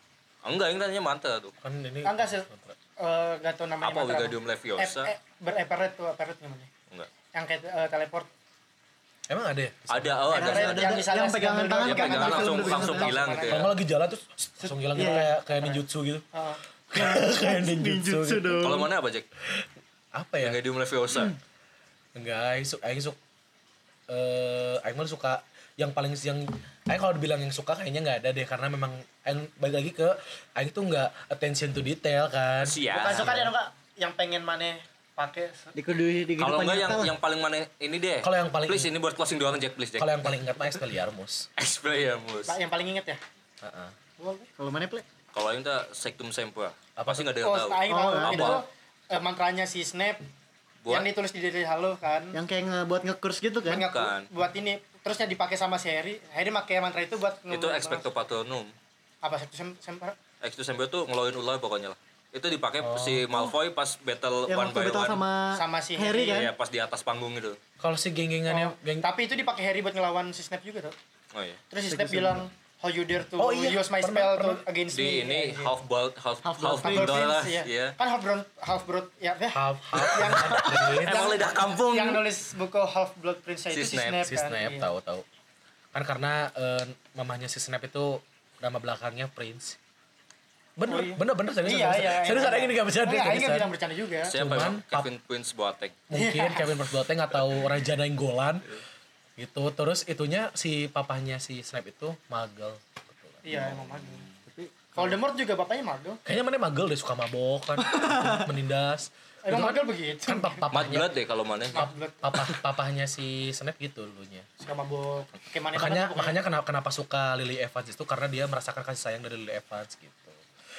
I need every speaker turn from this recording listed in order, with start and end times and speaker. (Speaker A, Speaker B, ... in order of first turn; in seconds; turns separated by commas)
Speaker A: 0.4-1.5, Speaker B: 1.6-2.8, Speaker C: 2.0-2.5, Speaker C: 3.0-6.7, Speaker A: 3.8-5.1, Speaker C: 7.3-8.3, Speaker B: 9.3-10.3, Speaker A: 9.9-11.1, Speaker D: 10.3-13.2, Speaker C: 10.4-13.7, Speaker A: 11.8-13.7, Speaker B: 13.5-16.3, Speaker C: 14.6-16.6, Speaker D: 14.9-15.3, Speaker B: 16.9-18.9, Speaker D: 16.9-18.9, Speaker A: 18.6-19.3, Speaker B: 19.4-20.6, Speaker A: 20.4-21.4, Speaker B: 22.1-23.2, Speaker B: 24.1-33.5, Speaker A: 32.6-33.3, Speaker C: 32.9-35.7, Speaker D: 35.7-37.1, Speaker A: 36.4-40.3, Speaker B: 38.2-38.9, Speaker B: 40.0-41.5, Speaker A: 41.6-42.6, Speaker C: 42.5-43.2, Speaker B: 43.6-43.9, Speaker C: 44.2-44.5, Speaker D: 44.6-45.0, Speaker A: 45.3-48.6, Speaker B: 47.0-47.3, Speaker C: 47.4-50.2, Speaker D: 47.9-48.6, Speaker C: 50.9-52.4, Speaker D: 52.3-53.9, Speaker C: 53.7-58.1, Speaker A: 53.9-54.3, Speaker A: 57.5-58.7, Speaker C: 59.2-60.1, Speaker A: 60.4-65.2, Speaker B: 62.8-63.5, Speaker D: 64.5-66.5, Speaker C: 65.5-66.5, Speaker A: 66.2-67.6, Speaker B: 67.8-69.1, Speaker C: 68.5-70.9, Speaker A: 71.3-71.6, Speaker C: 71.7-75.8, Speaker D: 71.9-72.4, Speaker B: 73.4-74.7, Speaker A: 74.9-78.0, Speaker D: 76.4-77.2, Speaker C: 76.8-84.9, Speaker B: 79.5-81.2, Speaker A: 80.0-82.2, Speaker A: 83.7-84.2, Speaker B: 84.2-85.2, Speaker B: 85.9-89.8, Speaker B: 90.8-93.7, Speaker C: 90.9-94.3, Speaker B: 94.3-95.1, Speaker A: 94.3-96.0, Speaker B: 96.1-98.8, Speaker C: 96.1-96.7, Speaker B: 99.4-103.9, Speaker C: 103.4-104.3, Speaker D: 104.5-105.2, Speaker C: 105.0-106.2, Speaker B: 106.2-111.2, Speaker D: 107.9-108.4, Speaker C: 109.4-110.7, Speaker A: 110.7-111.9, Speaker C: 111.7-112.2, Speaker B: 112.2-114.5, Speaker C: 114.6-116.4, Speaker B: 115.7-120.4